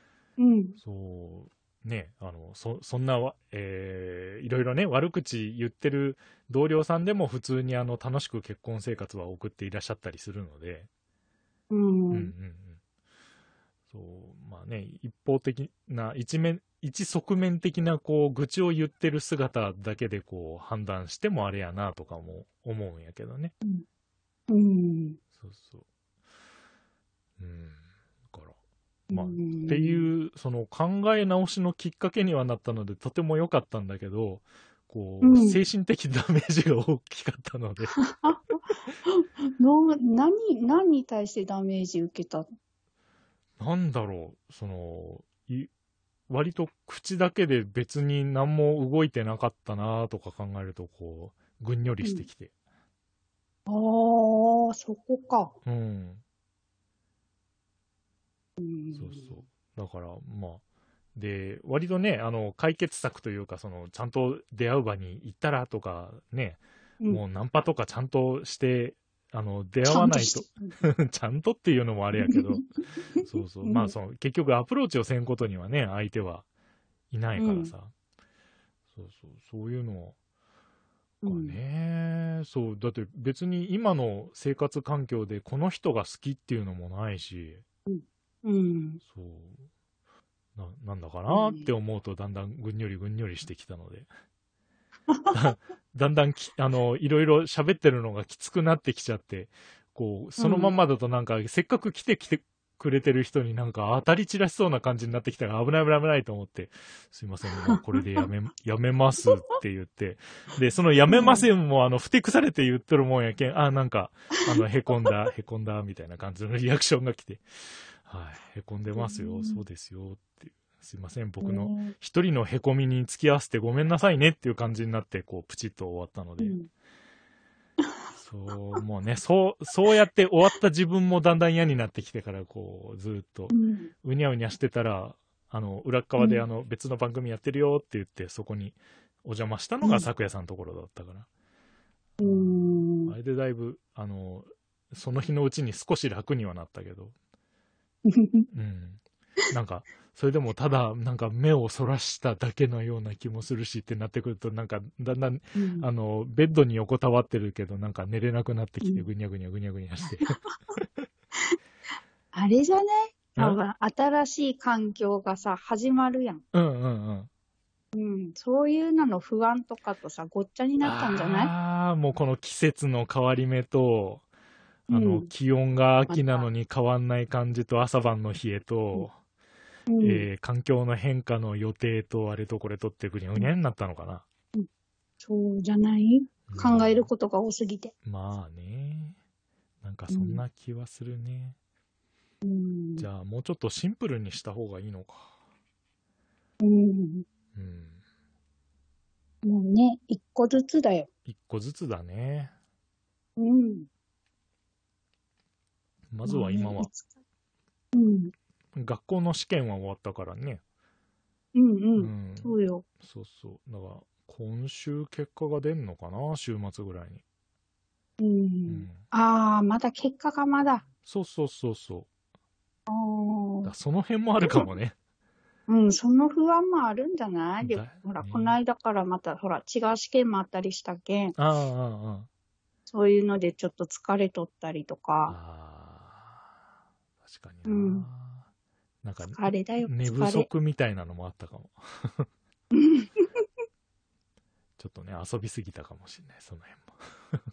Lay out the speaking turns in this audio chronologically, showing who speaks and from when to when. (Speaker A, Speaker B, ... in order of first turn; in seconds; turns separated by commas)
Speaker A: 0.4-0.8, Speaker B: 0.8-10.9, Speaker A: 11.7-12.3, Speaker B: 12.1-12.8, Speaker B: 13.9-23.5, Speaker A: 24.5-25.2, Speaker B: 25.4-25.8, Speaker B: 27.4-28.5, Speaker A: 29.1-30.1, Speaker B: 29.1-38.0, Speaker A: 35.2-35.6, Speaker A: 38.1-42.5, Speaker B: 43.6-45.7, Speaker B: 46.3-52.5, Speaker A: 52.0-52.3, Speaker A: 53.7-55.5, Speaker B: 55.6-56.2, Speaker A: 58.6-59.3, Speaker B: 58.9-60.6, Speaker B: 61.2-72.6, Speaker A: 69.8-70.8, Speaker A: 72.2-72.6, Speaker A: 73.1-73.9, Speaker B: 73.2-76.5, Speaker B: 77.1-77.9, Speaker A: 77.4-77.7, Speaker B: 79.0-80.2, Speaker A: 81.2-81.6, Speaker B: 81.3-87.6, Speaker A: 87.9-89.0, Speaker B: 89.0-89.6, Speaker B: 90.6-94.1, Speaker A: 91.3-91.7, Speaker A: 95.1-95.4, Speaker B: 95.3-126.6, Speaker A: 100.4-100.7, Speaker A: 111.1-111.5, Speaker A: 119.0-119.6, Speaker A: 121.4-122.0, Speaker A: 126.4-126.7, Speaker B: 128.2-141.3, Speaker A: 133.5-133.9, Speaker A: 136.2-136.4, Speaker A: 139.8-140.1, Speaker A: 142.2-143.1, Speaker B: 142.2-147.1, Speaker A: 148.1-148.5, Speaker B: 148.5-149.0, Speaker B: 149.5-161.1, Speaker A: 155.6-155.9, Speaker A: 162.3-166.4, Speaker B: 166.5-167.3, Speaker A: 167.9-171.5, Speaker B: 170.8-174.2, Speaker B: 174.9-179.2, Speaker A: 174.9-175.3, Speaker A: 176.1-176.5, Speaker A: 179.9-180.3, Speaker B: 180.0-184.2, Speaker A: 185.2-187.9, Speaker B: 186.5-187.1, Speaker B: 188.1-189.2, Speaker B: 189.8-191.6, Speaker A: 190.1-190.4, Speaker A: 192.4-193.1, Speaker B: 193.0-195.3, Speaker A: 196.6-197.3, Speaker B: 197.5-198.0, Speaker A: 199.4-201.1, Speaker B: 201.3-202.5, Speaker A: 203.4-203.9, Speaker B: 206.1-206.9, Speaker A: 206.2-207.1, Speaker A: 207.9-208.3, Speaker B: 208.8-210.6, Speaker A: 211.5-212.8, Speaker B: 212.0-217.2, Speaker A: 218.2-220.8, Speaker B: 218.7-219.0, Speaker B: 221.1-222.1, Speaker A: 222.9-223.7, Speaker B: 223.6-224.9, Speaker A: 225.7-231.3, Speaker B: 227.6-228.6, Speaker B: 231.4-232.3, Speaker A: 232.9-235.4, Speaker B: 235.3-236.5, Speaker B: 237.2-238.5, Speaker A: 237.7-238.1, Speaker B: 239.0-242.3, Speaker A: 239.3-240.5, Speaker A: 242.7-243.3, Speaker B: 244.8-247.4